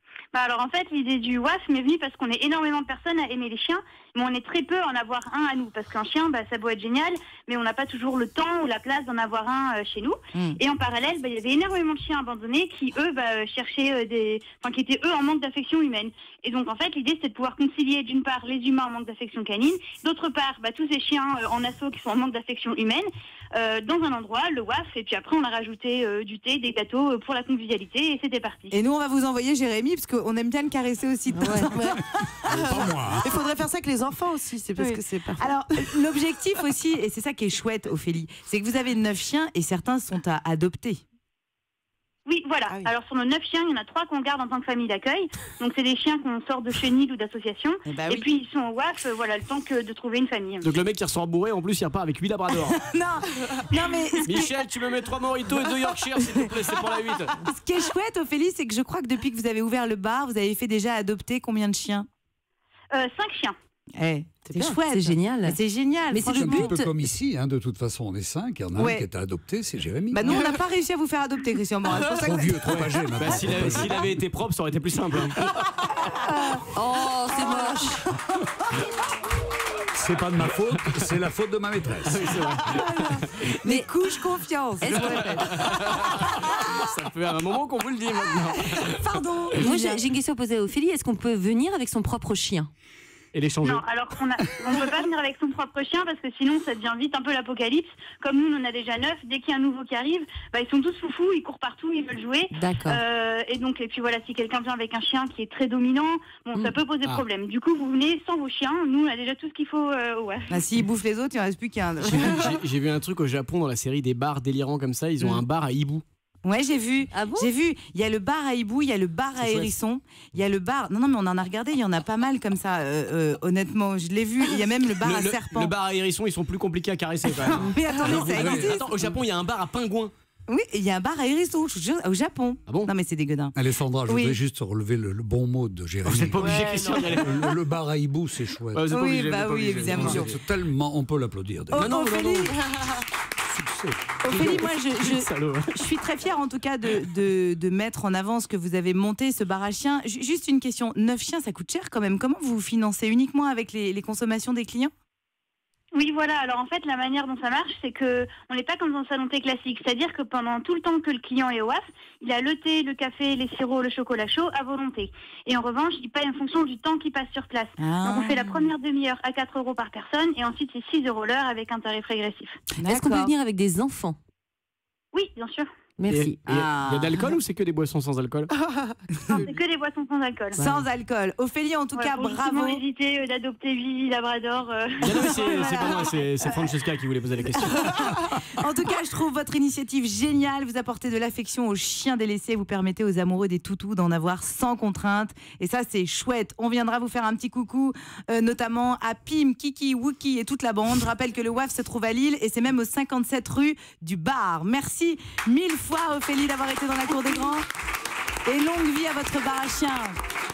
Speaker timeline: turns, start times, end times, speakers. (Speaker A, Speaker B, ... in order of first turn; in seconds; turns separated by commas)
Speaker A: 0.3-28.7, Speaker B: 28.7-32.8, Speaker C: 31.3-32.0, Speaker D: 32.4-33.3, Speaker E: 32.5-35.5, Speaker B: 34.8-41.0, Speaker A: 42.2-50.7, Speaker B: 47.9-48.3, Speaker F: 50.6-52.8, Speaker B: 52.6-54.5, Speaker A: 53.7-54.5, Speaker F: 54.2-57.4, Speaker B: 57.4-62.1, Speaker A: 62.9-63.5, Speaker B: 64.0-66.7, Speaker C: 64.5-65.6, Speaker C: 66.1-66.9, Speaker D: 66.2-70.5, Speaker B: 68.8-69.0, Speaker B: 70.1-72.5, Speaker D: 72.0-74.2, Speaker F: 72.6-75.4, Speaker B: 76.0-76.6, Speaker C: 76.7-78.2, Speaker D: 79.9-82.2, Speaker F: 80.7-81.0, Speaker F: 82.0-83.6, Speaker B: 82.7-86.9, Speaker C: 84.8-85.2, Speaker F: 84.8-89.1, Speaker B: 88.3-90.0, Speaker C: 89.6-92.7, Speaker F: 93.3-93.8, Speaker A: 93.6-110.5, Speaker C: 102.5-103.0, Speaker B: 110.5-112.6, Speaker F: 112.0-116.0, Speaker B: 116.4-125.7, Speaker C: 117.1-117.5, Speaker F: 119.4-119.7, Speaker F: 125.0-130.1, Speaker B: 127.4-129.2, Speaker B: 130.5-133.5, Speaker D: 133.5-138.9, Speaker B: 134.1-134.4, Speaker F: 136.0-137.6, Speaker E: 136.4-137.2, Speaker F: 138.7-140.2, Speaker B: 138.9-140.3, Speaker D: 139.8-141.9, Speaker E: 140.0-140.3, Speaker B: 141.7-142.6, Speaker F: 141.7-142.8, Speaker D: 143.5-144.7, Speaker B: 144.2-154.9, Speaker F: 144.4-145.8, Speaker A: 155.9-172.6, Speaker B: 167.8-168.6, Speaker B: 172.8-173.3, Speaker C: 172.8-174.2, Speaker A: 175.1-175.7, Speaker C: 176.0-176.7, Speaker F: 176.1-178.5, Speaker B: 176.4-177.4, Speaker E: 178.6-179.0, Speaker A: 179.3-180.6, Speaker C: 180.6-180.8, Speaker B: 180.6-182.8, Speaker A: 181.9-186.1, Speaker F: 185.0-188.1, Speaker B: 185.1-186.7, Speaker B: 187.6-207.7, Speaker B: 208.4-210.2